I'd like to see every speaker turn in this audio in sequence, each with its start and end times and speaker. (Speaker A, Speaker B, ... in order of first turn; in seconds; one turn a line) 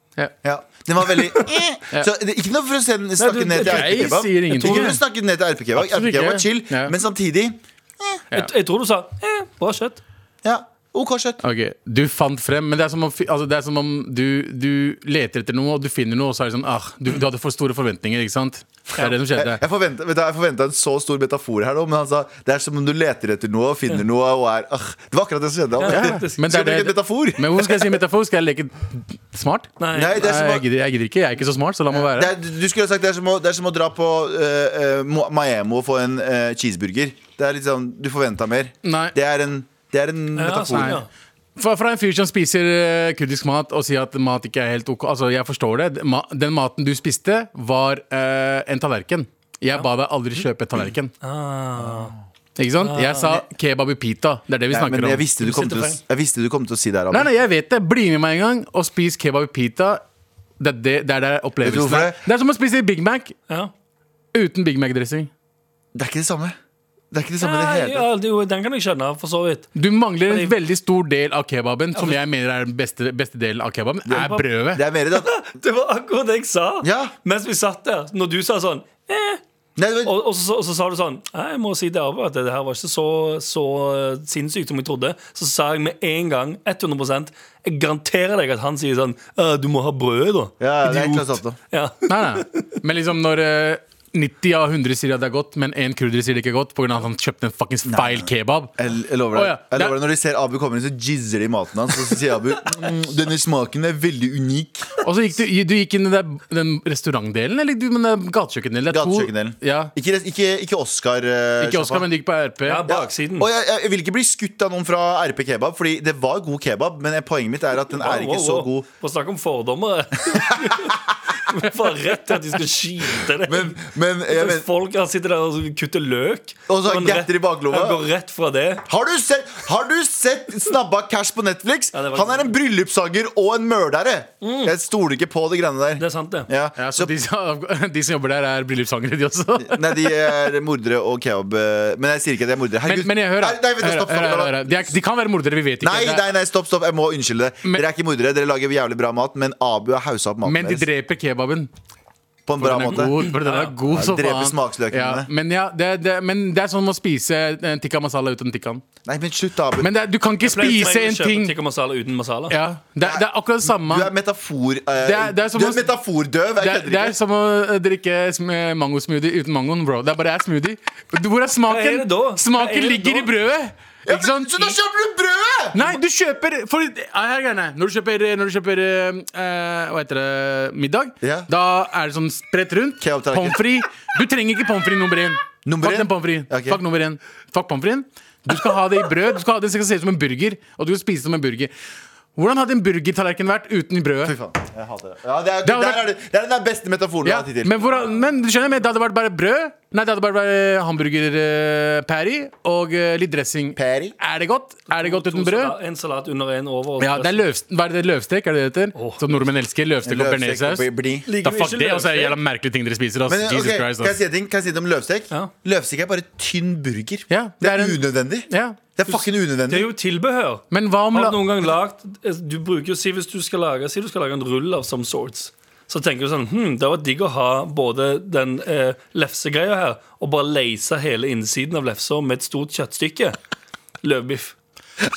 Speaker A: 0.4-8.2
Speaker B: 3.2-5.0
Speaker C: 3.6-5.0
Speaker C: 5.8-6.9
Speaker B: 8.3-10.0
Speaker A: 10.4-11.4
Speaker C: 11.4-19.6
Speaker A: 19.0-28.0
Speaker B: 25.8-26.4
Speaker C: 25.9-32.3
Speaker B: 29.8-30.2
Speaker A: 29.9-30.6
Speaker A: 31.9-41.0
Speaker C: 38.8-39.1
Speaker B: 40.3-41.1
Speaker C: 40.7-41.0
Speaker C: 41.5-51.1
Speaker B: 51.2-52.1
Speaker C: 52.6-55.2
Speaker B: 52.8-53.4
Speaker A: 54.7-57.3
Speaker B: 55.4-56.0
Speaker C: 57.1-60.0
Speaker C: 60.6-63.3
Speaker A: 61.6-62.2
Speaker C: 64.3-65.3
Speaker A: 65.9-66.5
Speaker A: 67.1-68.0
Speaker B: 67.4-69.7
Speaker C: 69.7-74.8
Speaker B: 70.3-70.5
Speaker A: 74.0-75.3
Speaker B: 75.1-79.4
Speaker A: 76.8-77.1
Speaker A: 79.8-80.1
Speaker B: 80.0-92.7
Speaker A: 90.6-91.6
Speaker C: 92.1-98.7
Speaker A: 97.8-104.9
Speaker C: 99.3-100.0
Speaker C: 105.0-109.9
Speaker A: 108.9-112.0
Speaker C: 111.6-112.8
Speaker B: 112.7-113.5
Speaker A: 112.9-118.9
Speaker B: 117.9-128.8
Speaker A: 120.3-121.1
Speaker A: 123.4-124.7
Speaker A: 126.7-128.0
Speaker A: 128.8-137.1
Speaker B: 131.9-132.5
Speaker B: 134.4-134.7
Speaker B: 136.0-136.5
Speaker C: 136.8-140.3
Speaker A: 139.6-144.9
Speaker C: 142.8-146.3
Speaker A: 145.8-150.8
Speaker C: 150.4-151.7
Speaker A: 152.4-153.2
Speaker C: 152.6-158.8
Speaker B: 153.3-153.7
Speaker A: 153.9-155.3
Speaker A: 159.0-159.9
Speaker C: 159.8-161.5
Speaker B: 160.4-162.5
Speaker C: 162.5-164.1
Speaker A: 163.0-167.2
Speaker C: 165.0-165.9
Speaker C: 166.6-174.8
Speaker B: 171.7-173.3
Speaker A: 174.1-176.0
Speaker C: 175.7-191.7
Speaker A: 181.2-181.5
Speaker A: 183.0-183.6
Speaker A: 185.7-186.8
Speaker C: 192.3-194.3
Speaker A: 194.2-197.7
Speaker C: 195.6-196.0
Speaker C: 197.2-205.7
Speaker A: 203.7-204.1
Speaker B: 204.9-207.4
Speaker C: 207.0-210.9
Speaker B: 208.9-209.2
Speaker A: 210.0-211.3
Speaker B: 211.2-212.4
Speaker C: 211.4-214.1
Speaker A: 213.3-219.9
Speaker C: 217.3-218.8
Speaker B: 219.1-233.4
Speaker C: 220.7-221.4
Speaker B: 234.0-234.6